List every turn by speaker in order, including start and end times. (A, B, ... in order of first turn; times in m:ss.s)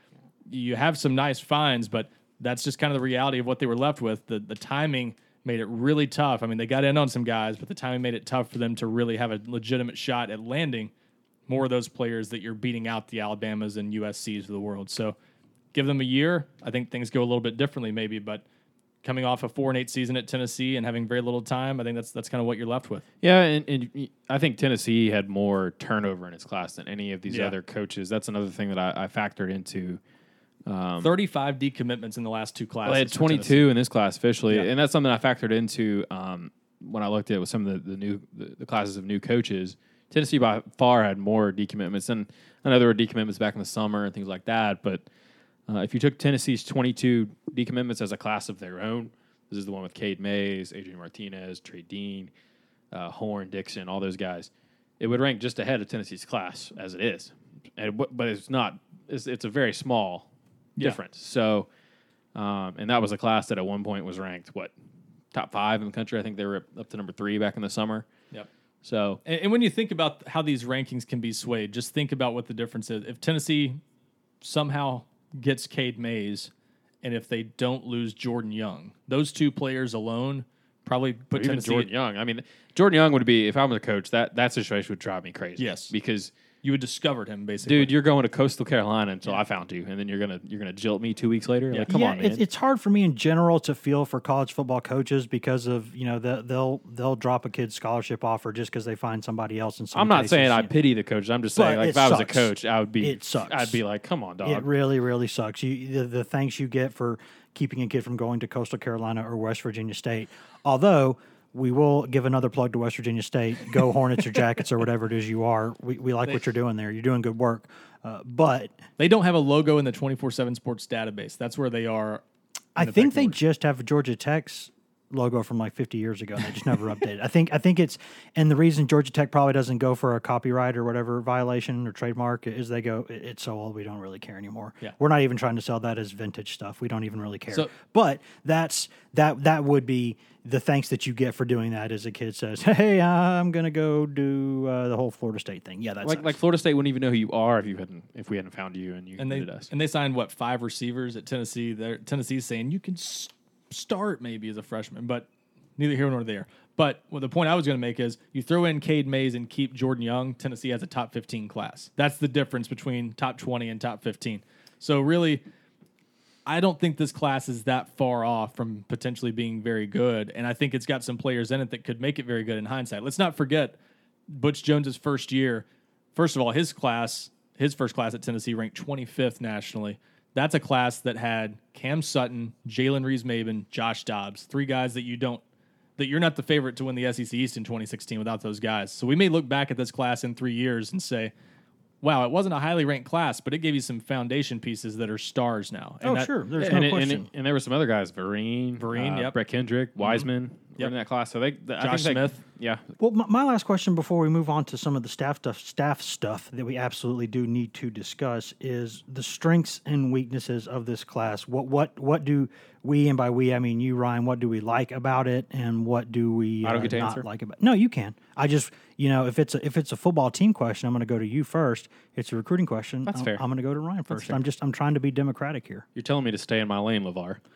0:00.5-0:10.9 A
0:11.5-0:15.2 A
0:15.7-0:18.4 A
0:19.0-0:23.0 A
0:23.2-0:30.0 B
0:27.3-0:27.5 A
0:30.6-0:31.1 B
0:31.0-0:33.7 A
0:32.8-0:45.0 B
0:45.7-0:52.3 B
0:52.9-0:54.5 B
0:55.0-1:01.7 B
1:02.3-1:04.7 B
1:05.3-1:08.1 B
1:08.8-1:09.2 B
1:09.2-1:13.8 A
1:14.4-1:16.5 A
1:17.0-1:21.9 A
1:21.3-1:26.3 B
1:25.6-1:25.9 A
1:26.6-1:27.9 A
1:27.6-1:32.4 B
1:31.9-1:40.7 C
1:39.9-1:44.7 B
1:41.6-1:43.8 C
1:44.4-1:58.8 C
1:59.0-2:02.2 A
2:02.8-2:26.4 C
2:02.8-2:03.4 A
2:26.0-2:29.7 B
2:29.2-2:45.4 A
2:46.4-2:53.8 A
2:54.3-3:05.4 A
3:06.0-3:11.3 A
3:12.0-3:16.3 A
3:16.0-3:17.3 C
3:16.6-3:22.8 B
3:18.8-3:19.3 A
3:20.0-3:20.3 A
3:21.8-3:22.4 A
3:23.0-3:45.8 C
3:36.6-3:37.2 B
3:43.0-3:43.4 B
3:44.1-3:44.4 B
3:45.9-3:47.4 B